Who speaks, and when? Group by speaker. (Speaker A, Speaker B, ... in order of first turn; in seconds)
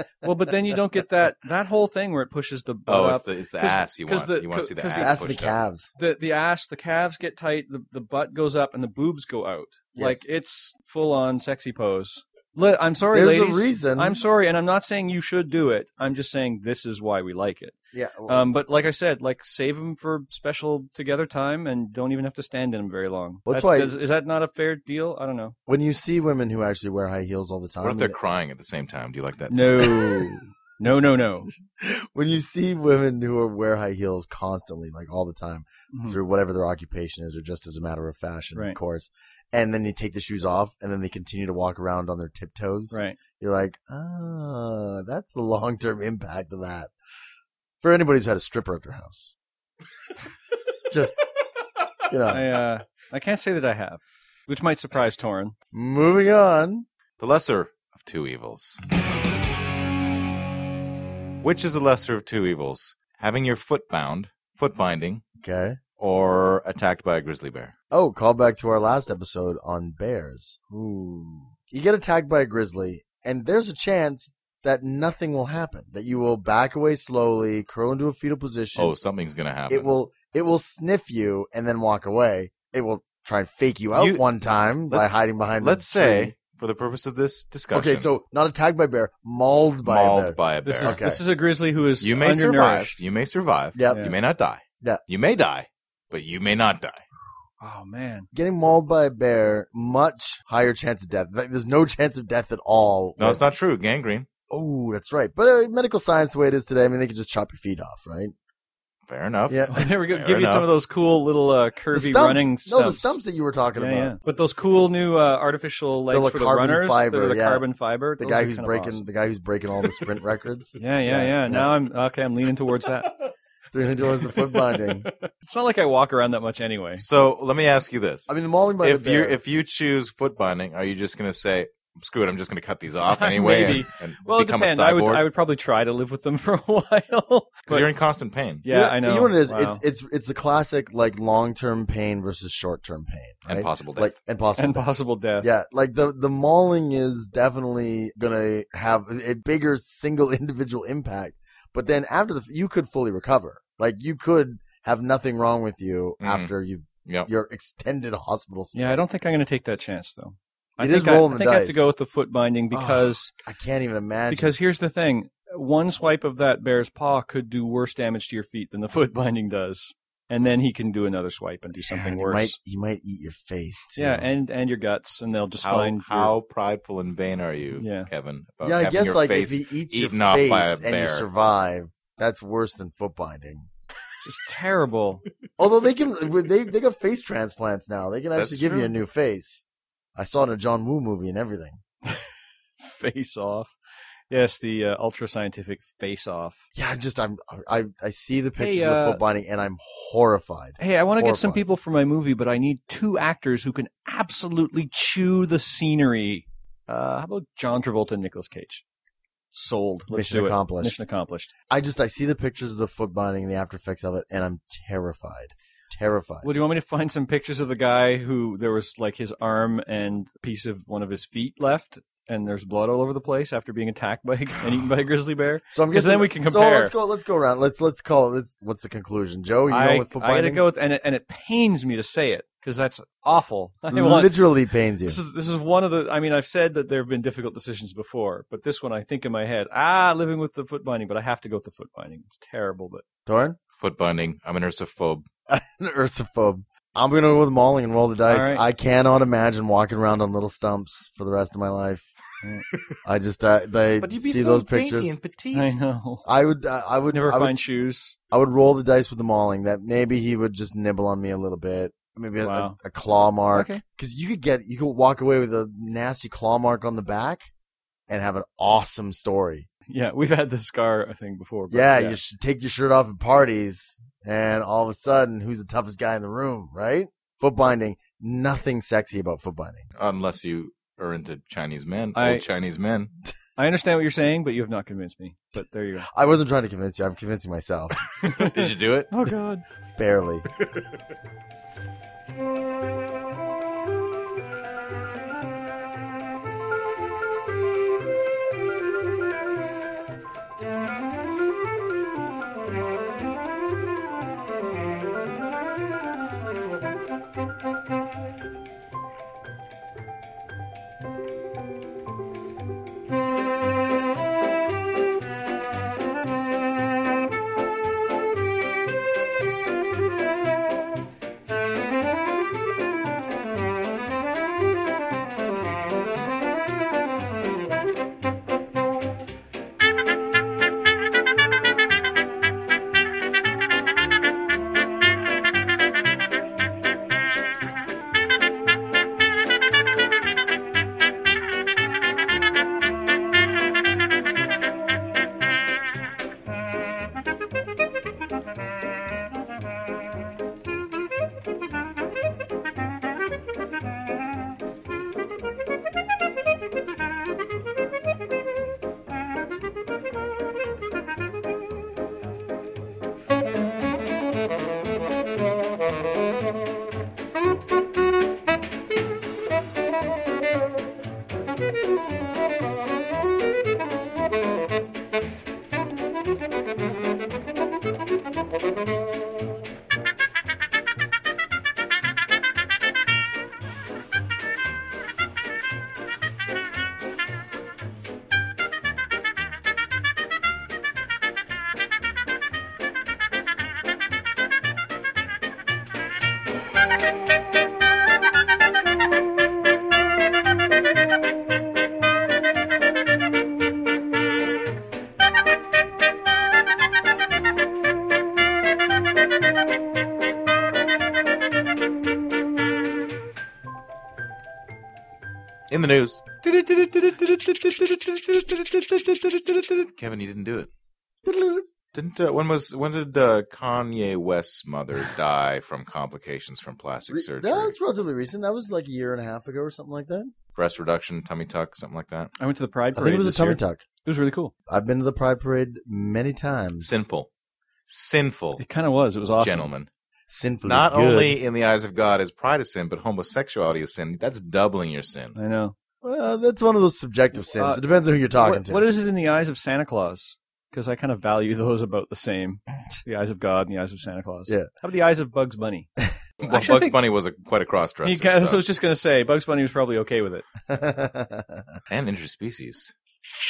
Speaker A: 0.2-5.2, 6.0-17.8, 18.3-25.6, 29.5-31.5, 35.9-36.2, 42.9-43.2, 52.3-55.5, 90.6-93.0, 93.9-94.2, 97.6-98.3, 109.7-113.2, 113.8-119.0, 120.8-123.2, 124.5-127.0, 133.1-137.9, 138.7-139.8, 144.6-145.5, 158.7-163.3, 164.3-172.6, 174.0-176.3, 177.8-178.1, 184.2-185.2, 192.8-193.7, 194.3-196.6, 198.6-199.2, 200.8-208.8, 209.5-211.5, 216.4-226.9, 229.7-234.4, 235.0-243.1, 248.3-248.7, 255.5-256.2, 257.1-258.2, 262.4-262.8, 263.5-263.8, 269.9-272.2, 282.1-282.4, 283.6-286.1, 288.2-289.6, 416.4-419.9, 432.4-434.5, 438.6-439.7, 445.4-445.8, 447.5-447.8, 448.4-455.9, 456.4-457.0, 458.0-460.4
Speaker B: 2.9-5.6, 27.8-30.3, 57.2-58.8, 61.4-65.2, 66.0-67.7, 78.8-79.9, 84.0-84.2, 84.9-88.1, 89.8-91.0, 92.0-97.0, 103.2-104.3, 109.1-110.7, 127.0-135.3, 137.7-138.7, 143.5-144.1, 156.2-156.5, 175.6-181.3, 188.3-189.0, 243.7-245.3, 254.0-255.8, 280.0-283.1, 288.4-289.1, 415.7-416.2, 420.0-420.7, 421.9-427.8, 430.6-432.3, 436.8-437.3, 437.9-438.6, 439.4-439.9, 440.6-445.4, 456.4-458.6, 461.9-462.9
Speaker C: 5.0-5.9, 9.9-10.3, 13.1-14.2, 17.9-18.5, 23.5-23.9, 25.7-28.2, 31.8-46.9, 47.8-49.3, 50.9-51.2, 52.1-52.5, 55.7-56.9, 65.4-65.8, 67.9-78.9, 79.7-86.3, 87.7-91.2, 93.8-94.1, 98.3-103.4, 104.5-108.3, 109.5-109.8, 111.9-114.2, 116.1-117.7, 118.2-121.7, 123.7-125.1, 128.3-129.4, 138.7-144.9, 145.4-159.0, 160.8-161.9, 162.7-164.5, 171.8-174.3, 178.6-183.7, 185.6-189.6, 190.2-191.8, 196.8-201.6, 210.1-211.0, 211.7-216.5, 225.7-230.6, 233.9-235.2, 243.3-243.6, 245.5-252.1, 253.1-255.2, 256.2-257.6, 258.3-267.5, 268.1-269.7, 271.7-279.9, 286.1-288.0, 290.0-290.5, 421.2-421.7, 427.1-430.3, 432.9-433.8, 434.7-437.0, 440.3-441.4, 446.0-448.8, 460.7-461.7